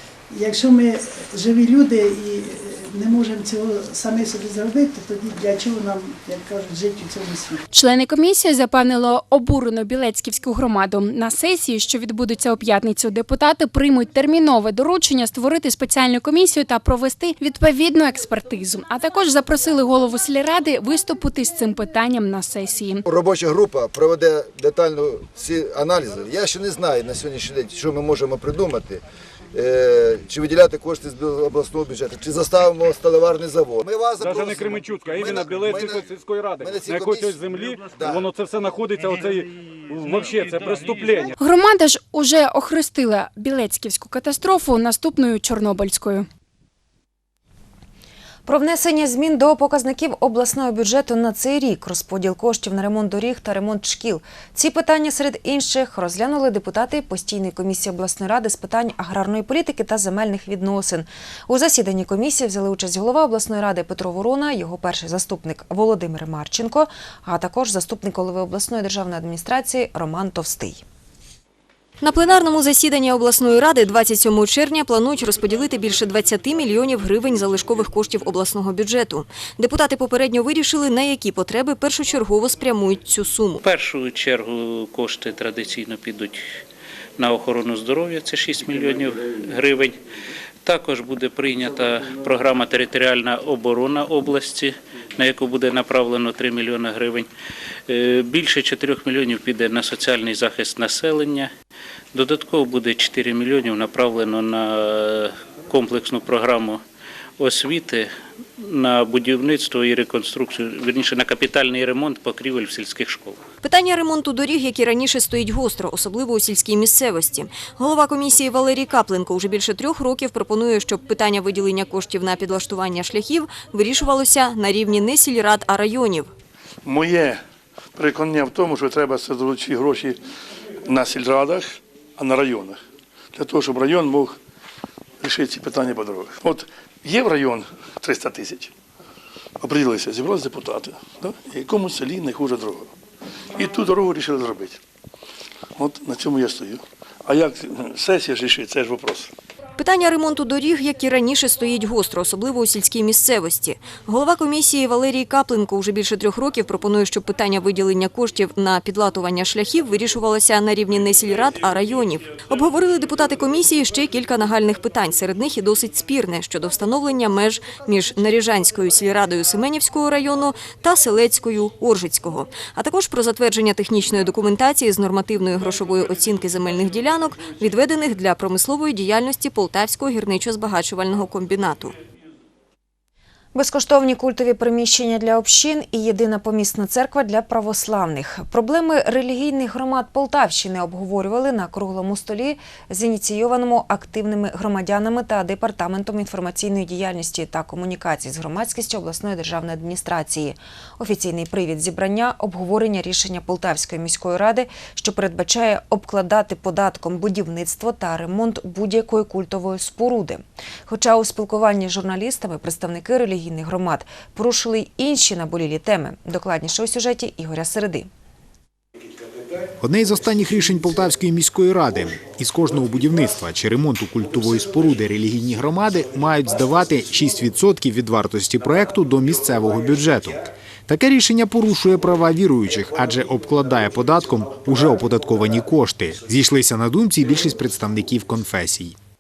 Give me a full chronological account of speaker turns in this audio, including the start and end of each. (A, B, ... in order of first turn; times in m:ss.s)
0:00.3-0:07.6 A
0:07.7-0:23.0 B
0:23.0-0:38.2 C
0:34.2-0:39.4 D
0:40.0-0:41.2 D
0:41.4-0:46.3 B
0:48.5-1:10.8 E
1:12.0-1:23.6 F
1:23.6-1:26.4 G
1:27.2-1:30.0 G
1:30.6-1:37.3 G
1:37.9-1:41.5 G
1:42.1-1:46.8 G
1:47.4-1:53.4 G
1:53.6-2:06.3 F
2:06.9-2:07.4 H
2:08.0-2:10.2 H
2:10.9-2:12.8 H
2:13.4-2:14.4 H
2:15.2-2:18.7 H
2:19.6-2:22.9 H
2:23.6-2:24.8 H
2:25.8-2:29.3 H
2:29.8-3:02.0 F
3:03.6-3:38.1 E
3:39.8-3:59.0 I